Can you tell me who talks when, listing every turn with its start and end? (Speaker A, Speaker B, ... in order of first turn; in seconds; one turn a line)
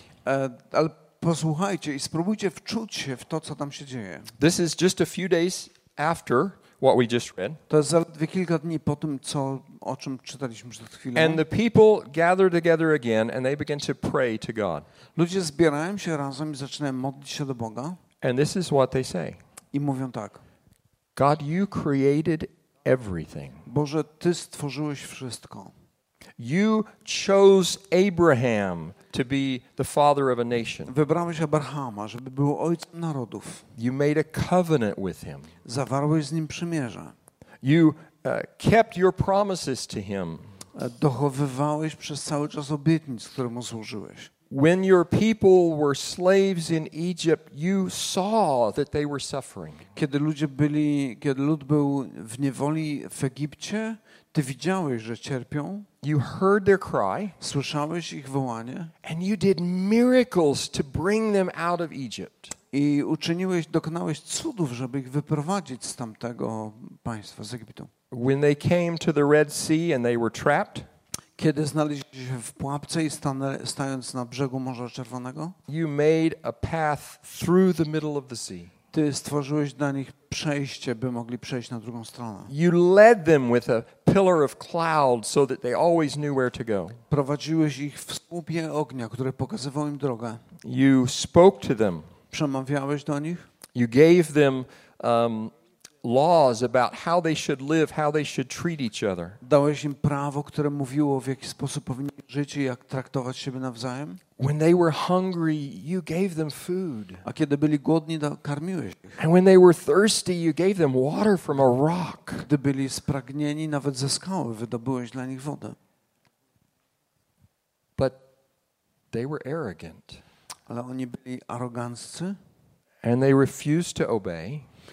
Speaker A: 0.2-4.3
Speaker B: 4.4-7.6
Speaker A: 7.7-11.4
Speaker B: 11.1-14.8
Speaker A: 15.1-18.0
Speaker B: 18.2-19.4
Speaker A: 19.7-20.4
Speaker B: 21.1-23.6
Speaker A: 23.6-25.7
Speaker B: 26.4-30.9
Speaker A: 30.9-33.7
Speaker B: 33.8-35.5
Speaker A: 35.6-37.1
Speaker B: 37.6-40.5
Speaker A: 40.7-44.3
Speaker B: 44.5-49.9
Speaker A: 49.9-55.9
Speaker B: 56.0-57.4
Speaker A: 57.4-58.9
Speaker B: 59.0-62.5
Speaker A: 62.7-67.9
Speaker B: 68.1-70.9
Speaker A: 71.4-75.6
Speaker B: 75.7-78.7
Speaker A: 78.9-82.5
Speaker B: 82.5-87.0
Speaker A: 87.1-90.4
Speaker B: 90.6-92.1
Speaker A: 92.3-93.4
Speaker B: 93.7-99.4
Speaker A: 99.4-104.2
Speaker B: 104.4-107.2
Speaker A: 107.2-109.2
Speaker B: 109.2-112.5
Speaker A: 112.4-115.8
Speaker B: 118.0-118.2
Speaker B: 119.1-120.2
Speaker A: 120.7-122.4
Speaker B: 123.0-124.7